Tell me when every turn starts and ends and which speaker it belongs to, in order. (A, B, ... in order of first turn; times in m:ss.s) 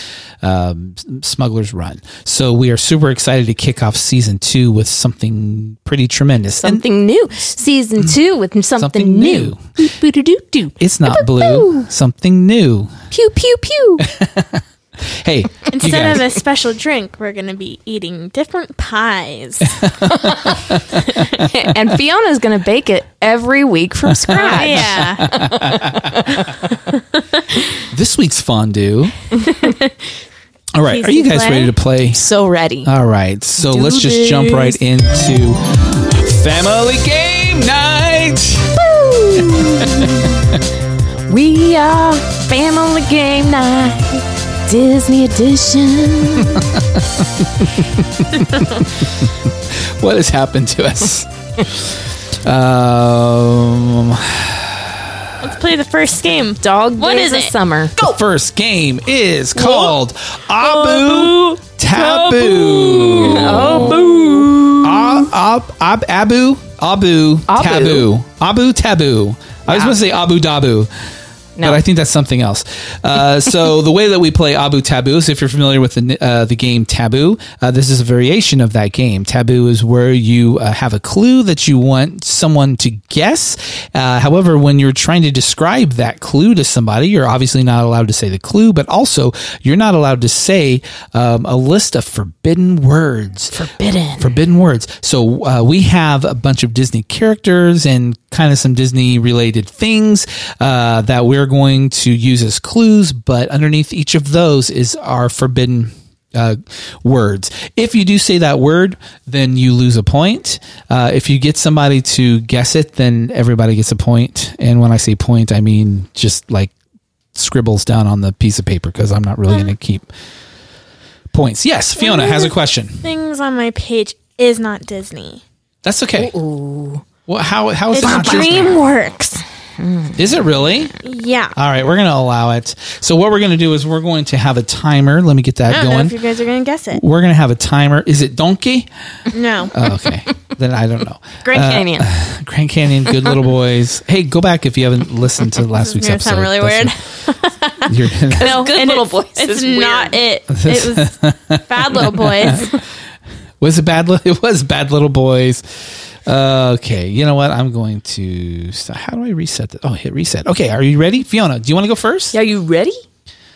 0:00.4-0:06.8 A
0:06.6-0:11.9 B
0:08.8-0:09.6 A
0:10.8-0:12.9 A
0:13.1-0:14.1 B
0:14.0-0:16.2 A
0:15.7-0:19.8 C
0:19.8-0:21.2 A
0:20.1-0:26.7 B
0:24.1-0:26.4 A
0:24.3-0:25.3 C
0:26.9-0:27.8 C
0:27.9-0:29.1 A
0:29.4-0:29.7 B
0:29.4-0:29.9 C
0:30.8-0:32.2 A
0:30.9-0:31.7 C
0:32.1-0:32.9 B
0:32.8-0:38.8 A
0:33.6-0:34.8 B
0:38.8-0:40.5 B
0:39.4-0:40.6 A
0:41.3-0:46.7 B
0:46.5-0:55.4 A
0:55.4-0:57.5 C
0:56.6-0:58.1 B
0:58.0-1:04.0 A
0:59.6-0:59.9 C
1:00.6-1:04.7 C
1:03.2-1:05.2 B
1:04.8-1:10.9 A
1:07.5-1:08.1 B
1:09.7-1:10.0 B
1:11.6-1:11.8 B
1:11.6-1:33.6 A
1:33.5-1:34.4 B
1:34.2-1:56.7 A
1:57.4-2:00.1 A
1:59.5-1:59.7 C
2:01.3-2:03.1 A
2:02.0-2:05.4 C
2:05.8-2:06.3 A
2:06.2-2:07.0 B
2:07.3-2:08.8 A
2:07.9-2:09.4 C
2:08.0-2:08.6 B
2:09.8-2:10.2 B
2:10.2-2:11.0 A
2:11.0-2:11.5 C
2:11.6-2:16.2 A
2:15.7-2:17.0 C
2:16.9-2:18.9 A
2:19.3-2:19.7 C
2:19.7-2:26.9 A
2:21.4-2:22.1 B
2:25.7-2:32.8 C
2:27.8-2:28.6 A
2:28.4-2:30.2 B
2:30.5-2:32.8 A
2:33.6-2:35.6 A
2:36.2-2:42.3 A
2:42.3-2:43.0 B